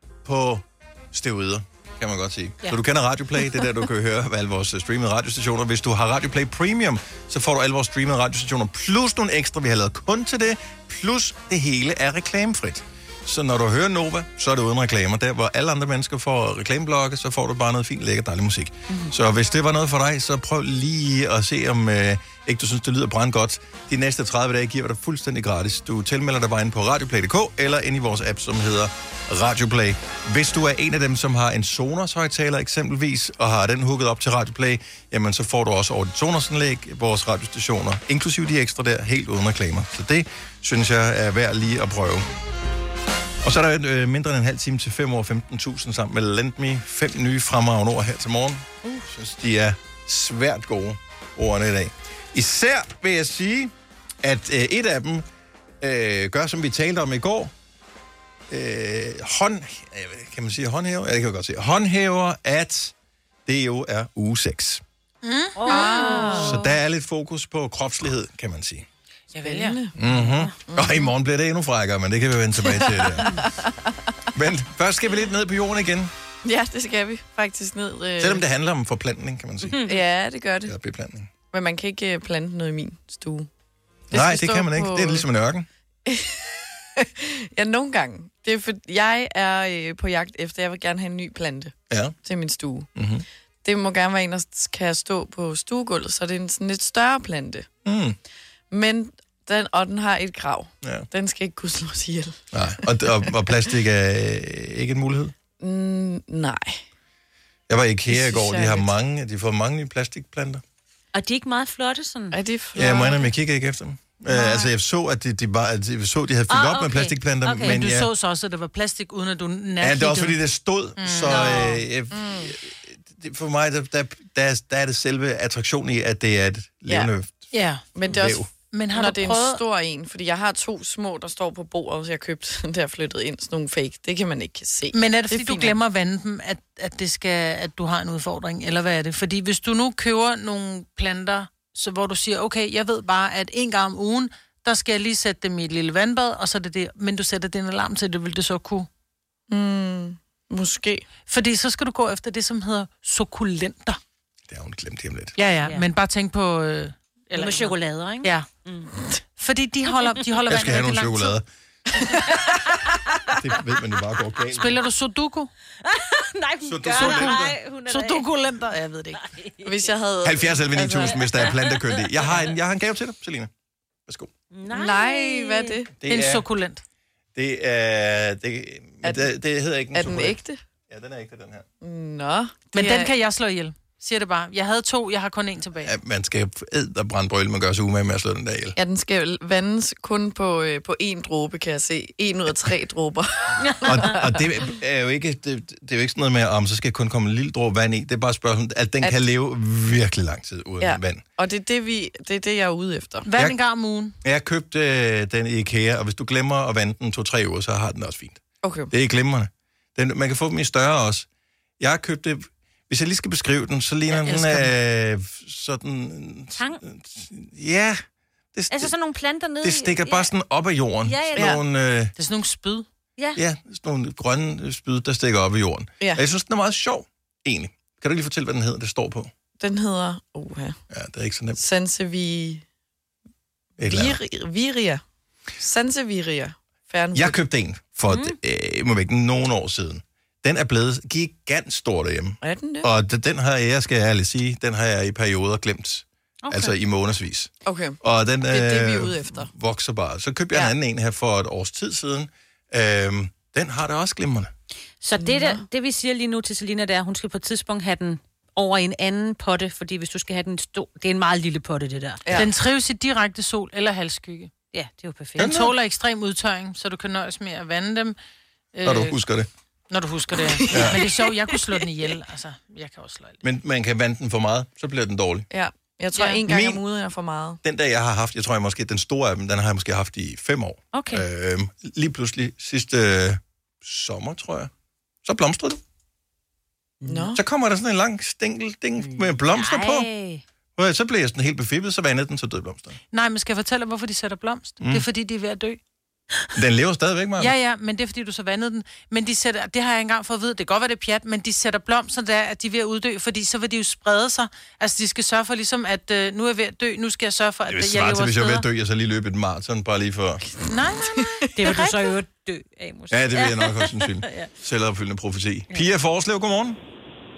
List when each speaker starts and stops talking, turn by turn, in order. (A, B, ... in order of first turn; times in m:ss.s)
0:00.2-0:42.3 A
0:43.4-0:55.2 A
0:55.8-0:57.5 A
0:58.5-1:02.9 A
1:03.5-1:04.8 A
1:05.2-1:06.5 B
1:05.6-1:06.6 C
1:05.7-1:06.6 D
1:06.3-1:08.9 A
1:09.3-1:09.8 B
1:09.4-1:09.9 D
1:10.0-1:13.3 A
1:10.7-1:11.1 D
1:12.6-1:14.2 D
1:14.3-1:16.1 A
1:16.4-1:18.4 D
1:18.2-1:19.9 A
1:19.6-1:20.0 C
1:19.9-1:20.7 D
1:20.7-1:21.3 A
1:21.5-1:23.5 D
1:24.1-1:25.3 D
1:24.1-1:25.7 A
1:26.1-1:32.9 D
1:31.9-1:32.2 A
1:33.0-1:33.2 A
1:33.6-1:37.7 D
1:37.8-1:38.2 A
1:38.7-1:43.3 D
1:42.5-1:45.3 A
1:45.6-1:46.8 D
1:47.7-1:50.6 A
1:48.1-1:48.9 D
1:51.1-1:52.4 C
1:52.3-1:53.3 D
1:52.8-1:58.1 A
1:54.3-1:54.7 C
1:56.5-1:57.8 C
1:57.6-2:00.4 B
1:59.8-2:07.5 A
2:01.0-2:01.7 B
2:01.3-2:01.8 C
2:02.1-2:02.5 D
2:07.5-2:07.8 B
2:07.9-2:15.8 D
2:08.1-2:08.5 A
2:08.7-2:09.6 B
2:14.9-2:28.9 B
2:29.5-2:31.1 D
2:31.3-2:34.0 B
2:34.5-2:35.4 A
2:35.4-2:38.5 B
2:37.3-2:38.9 C
2:39.4-2:41.4 B
2:40.5-2:41.5 A
2:41.9-2:42.8 D
2:43.4-2:44.8 A
2:44.5-2:45.5 B
2:45.8-2:48.3 C
2:46.6-2:47.6 A
2:47.0-2:49.2 B
2:49.1-2:49.7 C
2:49.6-2:51.2 D
2:50.2-2:53.5 A
2:51.0-2:52.0 C
2:54.5-2:55.8 C
2:54.7-2:55.9 D
2:56.0-2:56.5 A
2:56.1-2:56.8 B
2:57.4-3:00.4 A
2:59.0-2:59.3 D
2:59.9-3:00.6 D
3:00.9-3:01.7 A
3:01.8-3:03.1 D
3:02.7-3:05.9 B
3:05.8-3:08.8 A
3:08.8-3:14.4 D
3:13.8-3:21.2 A
3:20.8-3:23.3 D
3:23.2-3:24.2 B
3:24.2-3:31.3 A
3:28.6-3:28.9 D
3:31.8-3:38.9 A
3:34.1-3:34.7 B
3:36.6-3:36.8 C
3:38.7-3:40.3 C
3:39.6-3:42.1 A
3:41.0-3:41.6 C
3:41.4-3:41.6 D
3:42.2-3:42.9 B
3:43.4-3:49.3 A
3:49.6-3:50.8 D
3:50.9-3:51.6 A
3:51.6-3:52.6 D
3:53.8-3:54.2 A
3:53.8-3:55.0 D
3:55.6-3:57.4 D
3:57.1-4:07.5 A
3:58.1-3:58.4 C
4:02.4-4:02.9 D
4:06.4-4:06.7 C
4:07.7-4:09.5 D
4:08.0-4:14.5 A
4:15.0-4:22.3 C
4:15.2-4:15.6 D
4:22.2-4:22.5 D
4:22.4-4:24.5 B
4:24.7-4:25.6 C
4:25.4-4:25.7 A
4:25.4-4:28.2 B
4:28.8-4:29.2 B
4:28.8-4:29.5 A
4:29.9-4:33.4 B
4:30.4-4:31.5 D
4:30.7-4:31.0 A
4:33.4-4:35.5 A
4:35.5-4:37.6 D
4:36.5-4:36.8 A
4:37.6-4:44.7 A
4:40.9-4:41.2 C
4:45.2-4:45.8 A
4:47.0-4:47.4 D
4:47.3-4:50.1 A
4:49.0-4:50.4 C
4:50.8-4:53.0 A
4:53.1-4:55.8 B
4:54.8-4:55.1 A
4:56.6-4:57.6 A
4:57.4-5:08.7 B
5:07.7-5:10.4 A
5:10.7-5:12.1 B
5:11.6-5:14.5 C
5:13.1-5:16.8 A